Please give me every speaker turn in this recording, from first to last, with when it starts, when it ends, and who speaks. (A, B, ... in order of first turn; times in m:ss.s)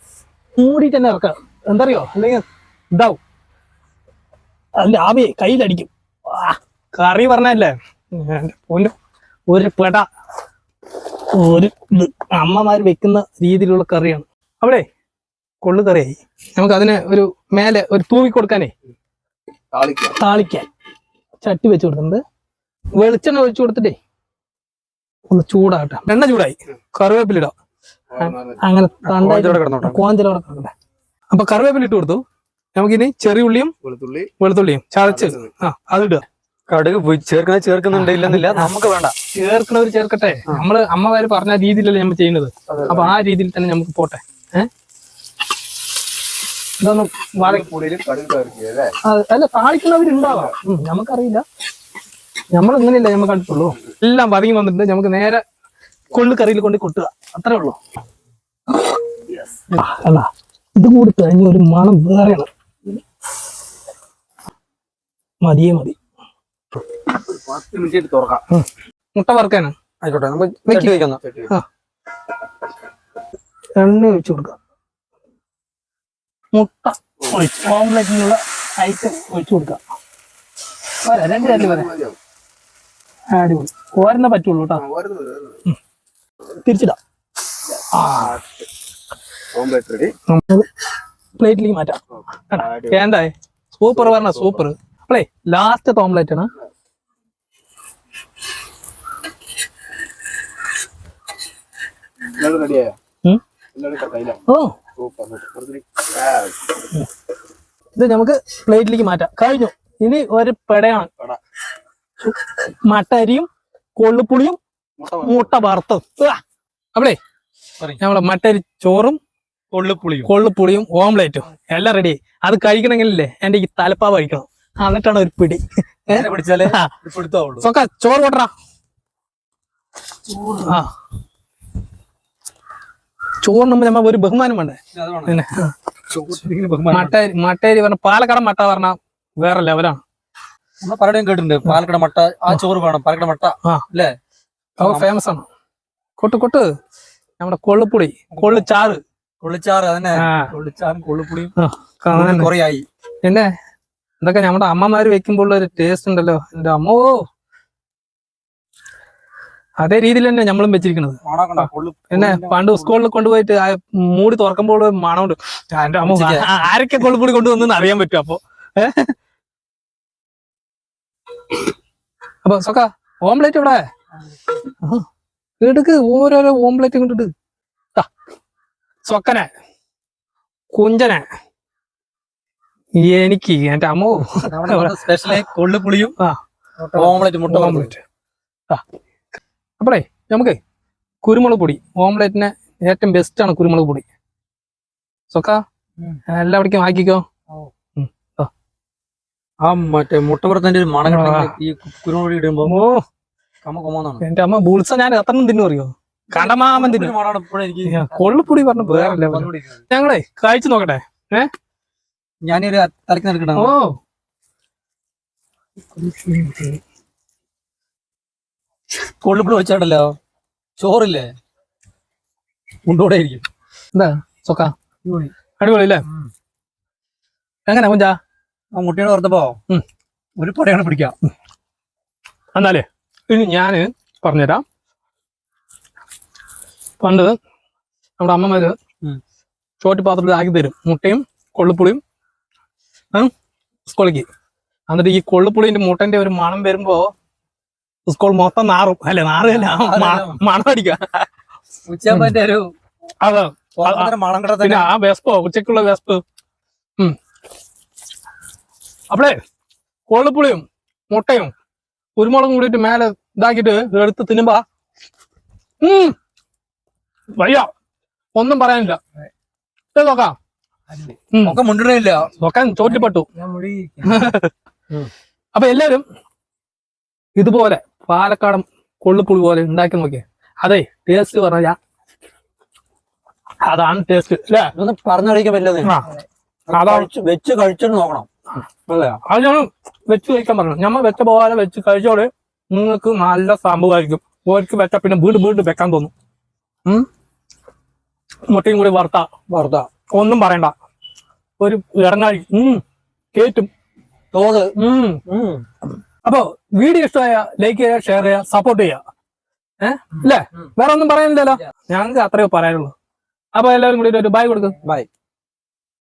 0:00.6-0:03.2 A
0:04.8-0:08.9 A
0:09.5-0:10.0 A
0:11.3-0:14.8 A
0:15.6-0:18.7 A
0:19.7-0:20.2 B
0:20.2-0:20.7 A
0:21.4-0:22.2 A
0:23.0-0:24.0 A
0:25.3-0:27.5 A
0:28.1-0:28.6 B
0:28.2-0:30.7 A
0:29.0-0:30.0 C
0:31.3-0:32.2 A
0:32.7-0:33.7 A
0:33.8-0:34.3 B
0:34.4-0:36.2 A
0:35.0-0:35.5 B
0:36.7-0:39.1 C
0:37.9-0:38.7 A
0:39.3-0:44.7 A
0:42.7-0:43.1 B
0:46.8-0:47.7 A
0:47.4-0:48.9 B
0:49.0-0:51.4 A
0:52.5-0:55.4 A
0:56.1-0:57.8 A
0:59.7-1:02.5 A
1:05.4-1:06.0 A
1:07.3-1:08.4 B
1:08.5-1:09.7 A
1:10.0-1:11.2 C
1:10.7-1:10.9 A
1:11.2-1:11.5 B
1:13.8-1:14.6 A
1:16.5-1:19.8 A
1:21.0-1:21.9 A
1:21.4-1:22.2 B
1:23.3-1:24.8 A
1:24.7-1:25.6 B
1:26.6-1:27.0 A
1:27.9-1:28.4 A
1:28.2-1:28.5 B
1:29.5-1:30.1 B
1:30.3-1:30.7 A
1:31.4-1:36.5 A
1:32.5-1:33.0 B
1:33.9-1:34.6 B
1:42.3-1:42.9 B
1:43.8-1:44.4 B
1:44.5-1:44.8 A
1:45.0-1:46.5 B
1:47.9-1:51.1 A
1:52.2-1:54.6 A
1:55.0-1:55.5 B
1:55.2-1:56.4 A
1:58.0-1:59.2 A
1:59.7-2:00.3 C
2:00.2-2:06.9 A
2:06.1-2:07.6 C
2:07.6-2:08.5 A
2:10.3-2:10.7 C
2:10.6-2:10.9 A
2:13.4-2:15.7 A
2:14.9-2:15.4 C
2:16.1-2:17.1 C
2:16.9-2:20.0 A
2:20.8-2:24.1 C
2:24.8-2:25.4 A
2:24.8-2:25.1 C
2:26.2-2:26.7 A
2:27.4-2:29.0 A
2:28.4-2:28.6 C
2:29.4-2:31.5 C
2:30.2-2:30.5 A
2:31.6-2:32.5 A
2:32.1-2:32.8 C
2:33.2-2:33.5 A
2:34.2-2:37.2 A
2:39.8-2:49.1 A
2:41.2-2:42.9 C
2:46.0-2:46.5 C
2:52.4-2:53.8 A
2:55.6-2:57.3 A
2:59.0-2:59.5 A
3:00.7-3:01.2 A
3:03.0-3:05.4 A
3:04.4-3:06.1 C
3:06.8-3:07.9 C
3:07.0-3:08.0 A
3:09.8-3:10.6 A
3:11.2-3:14.0 A
3:15.3-3:15.6 A
3:16.3-3:17.2 A
3:18.0-3:18.5 A
3:19.6-3:22.7 C
3:21.0-3:21.5 A
3:22.6-3:23.0 A
3:23.6-3:24.2 C
3:24.2-3:27.1 A
3:26.3-3:29.8 C
3:27.8-3:31.5 A
3:32.4-3:33.7 C
3:33.6-3:34.0 A
3:36.0-3:36.8 A
3:39.2-3:40.1 C
3:40.8-3:41.3 C
3:42.9-3:43.4 C
3:43.9-3:44.7 A
3:45.0-3:45.3 C
3:45.6-3:46.0 A
3:47.7-3:48.2 A
3:48.7-3:49.6 C
3:50.4-3:51.1 C
3:52.5-3:54.6 A
3:57.0-3:57.3 A
3:58.2-3:58.7 A
3:59.8-4:02.0 A
4:03.9-4:04.2 A
4:04.9-4:07.1 A
4:08.1-4:11.2 A
4:09.4-4:10.4 C
4:11.9-4:12.6 C
4:12.1-4:12.3 A
4:13.2-4:16.2 A
4:13.8-4:14.9 C
4:19.1-4:19.4 A
4:20.1-4:21.5 A
4:22.2-4:24.6 A
4:25.8-4:26.1 A
4:27.4-4:27.7 A
4:28.4-4:29.0 A
4:29.9-4:30.3 A
4:30.9-4:32.3 C
4:31.3-4:31.6 A
4:32.3-4:33.3 A
4:32.9-4:34.3 C
4:34.0-4:34.5 A
4:35.5-4:36.0 A
4:37.4-4:41.8 A
4:43.6-4:44.7 A
4:44.8-4:46.0 C
4:45.8-4:46.1 A
4:46.7-4:48.3 C
4:46.7-4:47.1 A
4:48.9-4:49.2 C
4:49.2-4:56.1 A
4:58.5-4:59.3 A
4:59.5-4:59.9 C
5:00.1-5:00.7 A
5:01.6-5:02.8 A
5:03.3-5:03.7 A
5:04.3-5:04.7 C
5:04.8-5:05.2 A
5:05.3-5:05.6 C
5:06.2-5:09.0 A
5:09.8-5:12.9 A
5:13.5-5:14.7 A